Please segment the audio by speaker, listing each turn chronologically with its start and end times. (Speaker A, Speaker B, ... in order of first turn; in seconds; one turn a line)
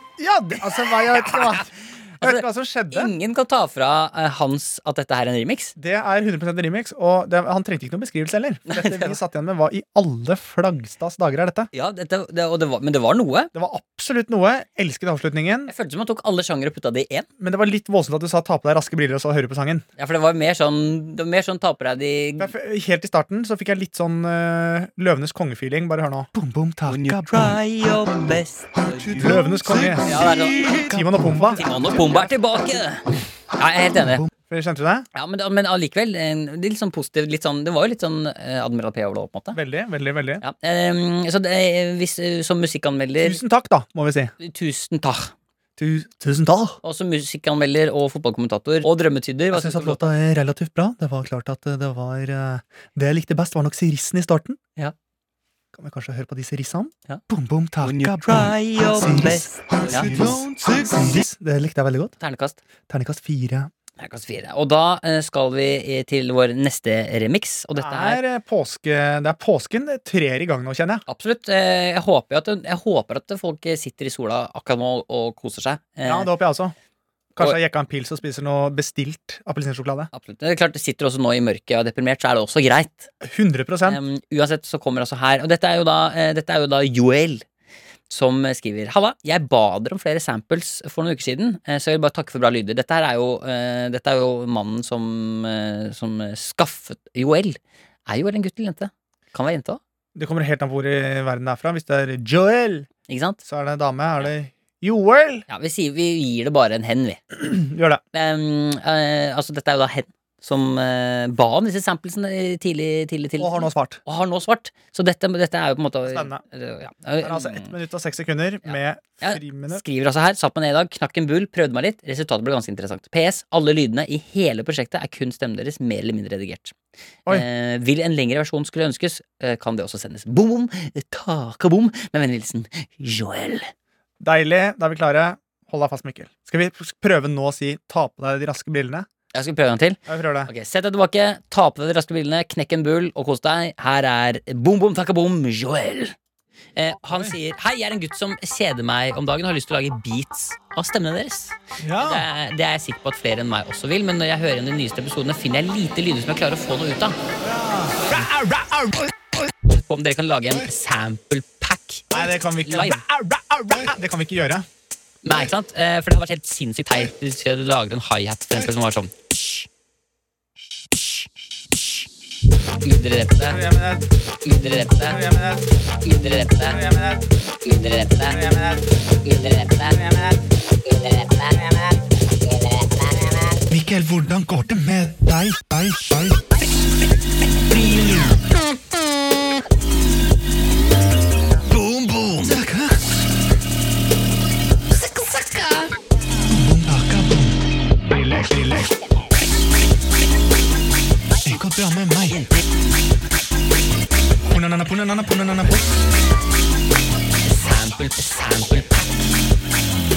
Speaker A: 0.2-3.1
Speaker B: 0.9-5.7
Speaker A: 5.8-11.7
Speaker B: 8.7-9.2
Speaker B: 11.7-13.5
Speaker A: 13.5-15.7
Speaker B: 15.7-17.3
Speaker A: 17.4-19.8
Speaker B: 20.0-22.5
Speaker A: 22.4-27.6
Speaker B: 26.9-29.4
Speaker A: 29.1-32.3
Speaker B: 30.0-34.2
Speaker A: 34.0-35.1
Speaker B: 35.1-39.6
Speaker A: 39.5-40.4
Speaker B: 40.4-43.4
Speaker A: 43.2-44.3
Speaker B: 44.4-45.3
Speaker A: 45.8-46.8
Speaker B: 46.8-50.1
Speaker A: 49.5-54.6
Speaker A: 55.7-62.1
Speaker B: 57.8-60.4
Speaker B: 62.2-62.6
Speaker A: 62.9-63.7
Speaker B: 64.0-68.2
Speaker A: 67.8-71.0
Speaker B: 71.1-76.3
Speaker A: 76.0-76.7
Speaker A: 77.3-80.1
Speaker B: 80.1-83.1
Speaker A: 83.2-84.0
Speaker B: 83.8-87.4
Speaker B: 88.1-99.8
Speaker A: 100.1-102.9
Speaker B: 103.1-103.4
Speaker A: 103.4-105.4
Speaker B: 105.5-107.2
Speaker A: 107.3-108.0
Speaker B: 108.1-117.7
Speaker A: 113.4-114.0
Speaker A: 116.1-116.4
Speaker A: 117.2-119.8
Speaker B: 118.7-126.8
Speaker B: 127.3-133.7
Speaker A: 134.2-139.1
Speaker B: 139.3-146.1
Speaker A: 140.1-140.5
Speaker B: 146.8-157.2
Speaker A: 147.1-147.3
Speaker A: 151.8-152.3
Speaker A: 157.4-159.1
Speaker B: 159.6-163.0
Speaker A: 162.1-164.7
Speaker B: 165.2-169.7
Speaker B: 172.8-173.6
Speaker A: 173.5-174.1
Speaker B: 174.4-175.2
Speaker A: 175.0-175.7
Speaker B: 176.0-176.8
Speaker A: 176.7-177.2
Speaker B: 177.6-178.5
Speaker A: 178.3-178.8
Speaker B: 179.2-180.0
Speaker A: 179.9-180.4
Speaker B: 180.9-181.7
Speaker A: 183.7-186.4
Speaker B: 187.7-188.4
Speaker B: 191.6-192.6
Speaker A: 192.4-193.1
Speaker B: 194.9-195.9
Speaker A: 196.5-199.0
Speaker A: 201.4-202.4
Speaker B: 202.3-202.6
Speaker A: 204.5-205.9
Speaker B: 207.4-209.1